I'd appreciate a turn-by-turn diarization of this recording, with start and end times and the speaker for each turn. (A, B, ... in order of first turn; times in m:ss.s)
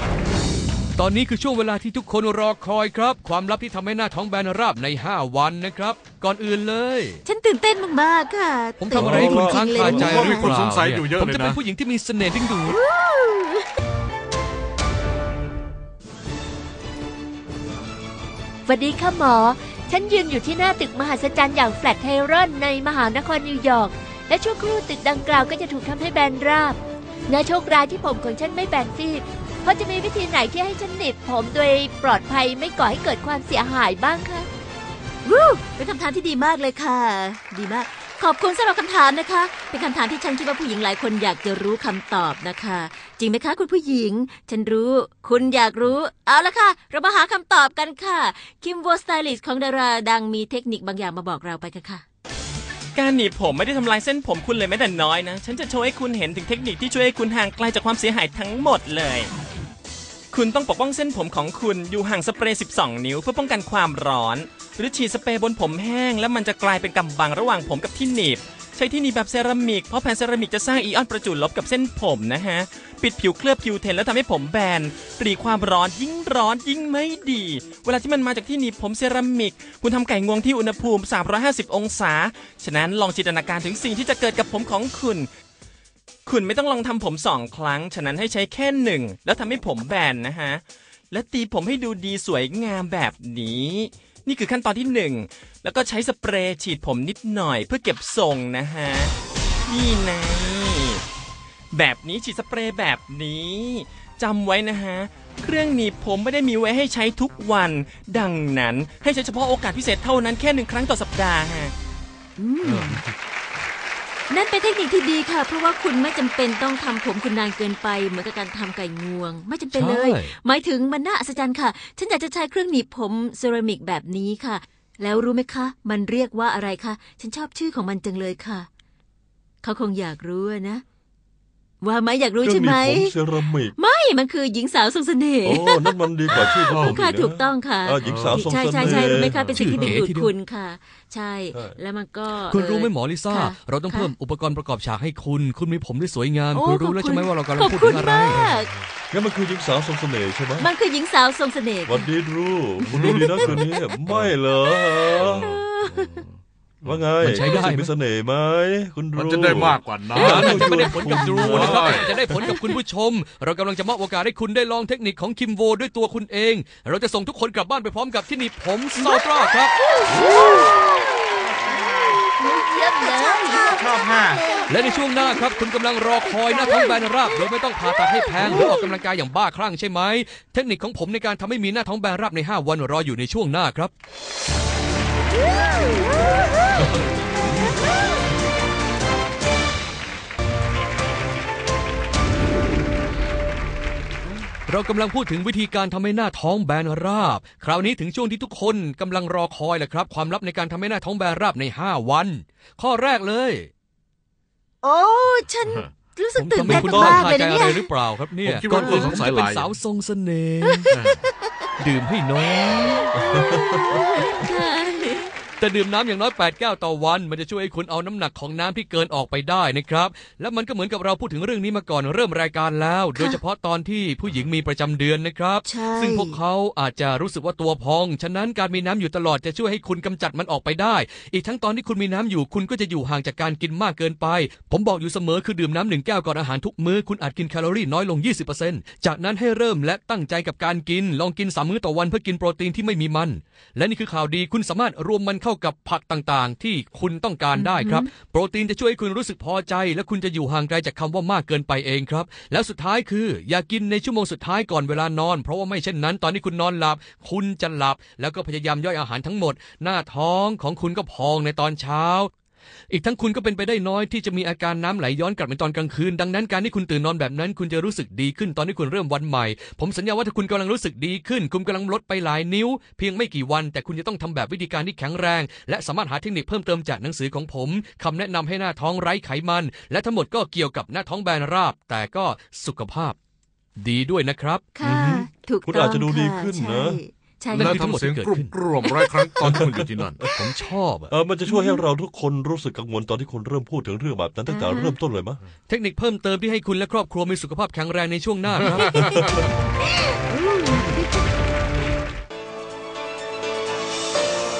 0:01.0-0:07.2 A
0:07.2-0:10.6 B
0:08.8-0:12.8 A
0:08.9-0:09.7 C
0:09.2-0:11.6 D
0:12.7-0:13.6 B
0:18.7-0:34.5 E
0:35.2-0:52.0 B
0:52.9-0:59.3 F
1:00.3-1:25.3 F
1:26.2-1:39.1 F
1:39.7-1:41.0 F
1:41.7-1:51.7 F
1:52.4-1:53.0 B
1:52.6-1:53.0 D
1:54.3-2:08.7 B
1:59.7-2:00.3 A
2:09.6-2:10.8 B
2:11.8-2:16.0 B
2:12.4-2:13.7 C
2:15.4-2:19.4 C
2:16.3-2:17.0 D
2:16.7-2:24.1 B
2:18.0-2:20.0 D
2:19.5-2:20.3 A
2:22.5-2:28.4 A
2:26.5-2:28.7 B
2:29.1-2:30.7 C
2:30.6-2:32.1 B
2:31.8-2:35.5 C
2:32.8-2:33.6 B
2:32.9-2:34.3 D
2:34.7-2:36.2 B
2:35.2-2:36.3 D
2:36.8-2:42.1 C
2:37.2-2:37.9 A
2:39.1-2:42.2 D
2:40.2-2:49.7 A
2:50.1-2:50.7 B
2:52.8-2:54.6 B
2:52.8-2:53.6 E
2:53.8-2:54.4 D
2:54.7-3:03.9 A
3:14.7-3:23.7 A
3:24.8-3:27.9 B
3:26.4-3:30.9 A
3:26.6-3:27.3 C
3:28.4-3:29.7 D
3:28.8-3:29.2 B
3:30.9-3:31.2 B
3:30.9-3:31.2 D
3:31.8-3:33.1 A
3:32.7-3:35.3 B
3:33.2-3:33.6 C
3:35.6-4:22.3 A
3:45.6-3:46.4 B
4:07.6-4:08.0 B
4:22.9-4:43.2 A
4:43.8-4:44.6 A
4:44.7-4:47.8 B
4:44.8-4:47.0 C
4:47.5-4:48.5 A
4:47.5-4:50.3 D
4:48.8-4:49.3 B
4:49.4-4:49.8 C
4:50.4-4:51.1 A
4:51.1-4:55.4 C
4:51.4-4:51.8 B
4:54.5-4:54.9 B
4:55.7-4:59.2 A
5:00.3-5:01.0 B